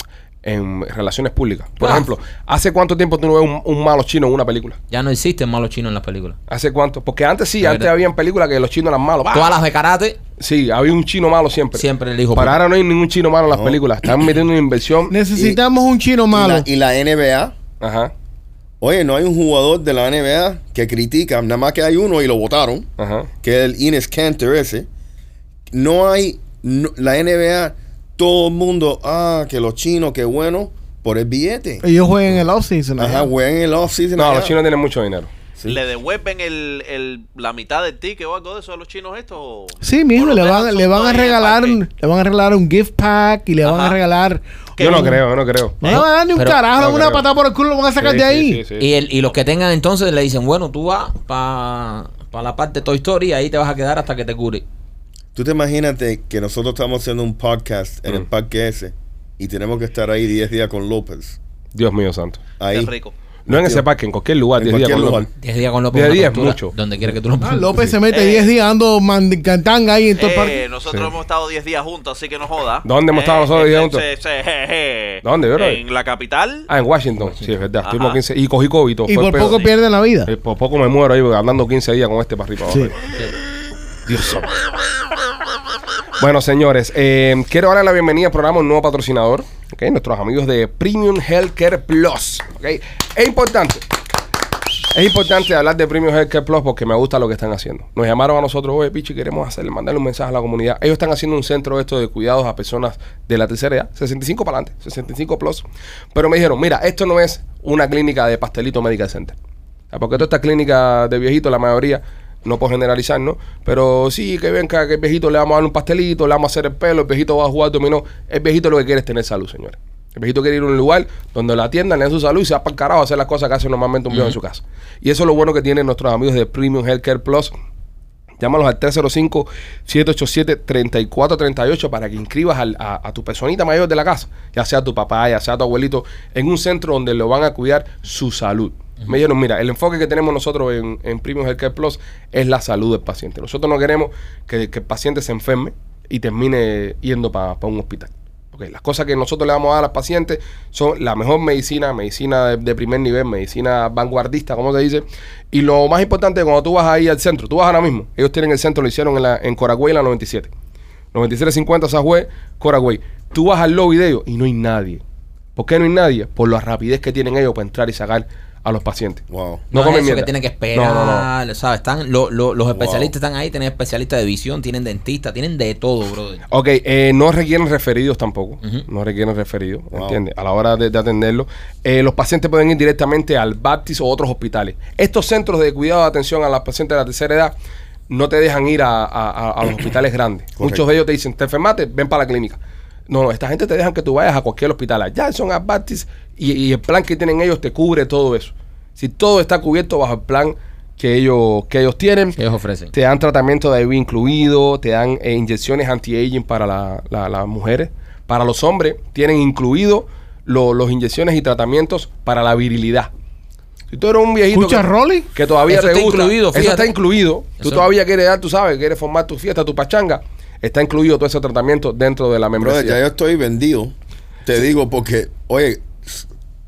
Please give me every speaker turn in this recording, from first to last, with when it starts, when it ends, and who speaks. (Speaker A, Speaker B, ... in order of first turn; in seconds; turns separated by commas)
Speaker A: 0.4-4.8, Speaker B: 1.8-2.1, Speaker B: 4.9-6.4, Speaker A: 6.5-9.6, Speaker B: 7.6-7.9, Speaker B: 9.3-10.2, Speaker A: 10.4-15.1, Speaker B: 11.7-12.6, Speaker C: 13.5-13.8, Speaker D: 15.1-16.6, Speaker C: 15.3-15.6, Speaker C: 16.3-17.5, Speaker A: 17.8-18.1, Speaker C: 18.8-22.9, Speaker A: 23.0-23.3, Speaker C: 23.4-24.9, Speaker C: 25.7-31.8, Speaker D: 31.8-33.3, Speaker C: 33.0-34.5, Speaker A: 34.1-35.3, Speaker E: 35.6-41.8, Speaker D: 39.8-45.2, Speaker E: 43.6-44.0, Speaker A: 44.8-46.0, Speaker D: 45.8-48.6, Speaker B: 45.8-46.6, Speaker A: 46.7-47.2, Speaker A: 48.0-48.9, Speaker B: 48.8-54.6, Speaker C: 55.3-61.4, Speaker A: 61.7-62.4, Speaker C: 62.6-62.9, Speaker E: 62.7-63.1, Speaker A: 63.5-65.3, Speaker C: 63.5-63.9, Speaker C: 64.6-65.3, Speaker B: 65.4-67.7, Speaker A: 65.9-66.7, Speaker D: 67.4-70.6, Speaker E: 68.1-68.5, Speaker E: 70.1-76.7, Speaker A: 72.8-74.0, Speaker A: 75.2-75.8, Speaker A: 76.7-79.6, Speaker E: 77.8-78.2, Speaker D: 79.1-80.3, Speaker E: 79.4-79.7, Speaker A: 80.3-83.0, Speaker A: 84.1-84.5, Speaker A: 86.2-93.8, Speaker A: 94.9-109.3, Speaker A: 109.9-127.5, Speaker B: 124.1-124.3, Speaker A: 128.4-160.5, Speaker A: 161.1-165.0, Speaker A: 165.6-171.3, Speaker C: 169.3-169.7, Speaker B: 169.7-176.4, Speaker C: 172.7-173.1, Speaker A: 176.5-187.5, Speaker C: 179.9-180.2, Speaker A: 188.1-202.4, Speaker C: 190.6-190.8, Speaker B: 202.4-202.9, Speaker A: 202.9-213.1, Speaker A: 213.9-223.0, Speaker D: 214.5-215.3, Speaker B: 215.7-216.9, Speaker B: 217.6-217.8, Speaker C: 222.6-226.2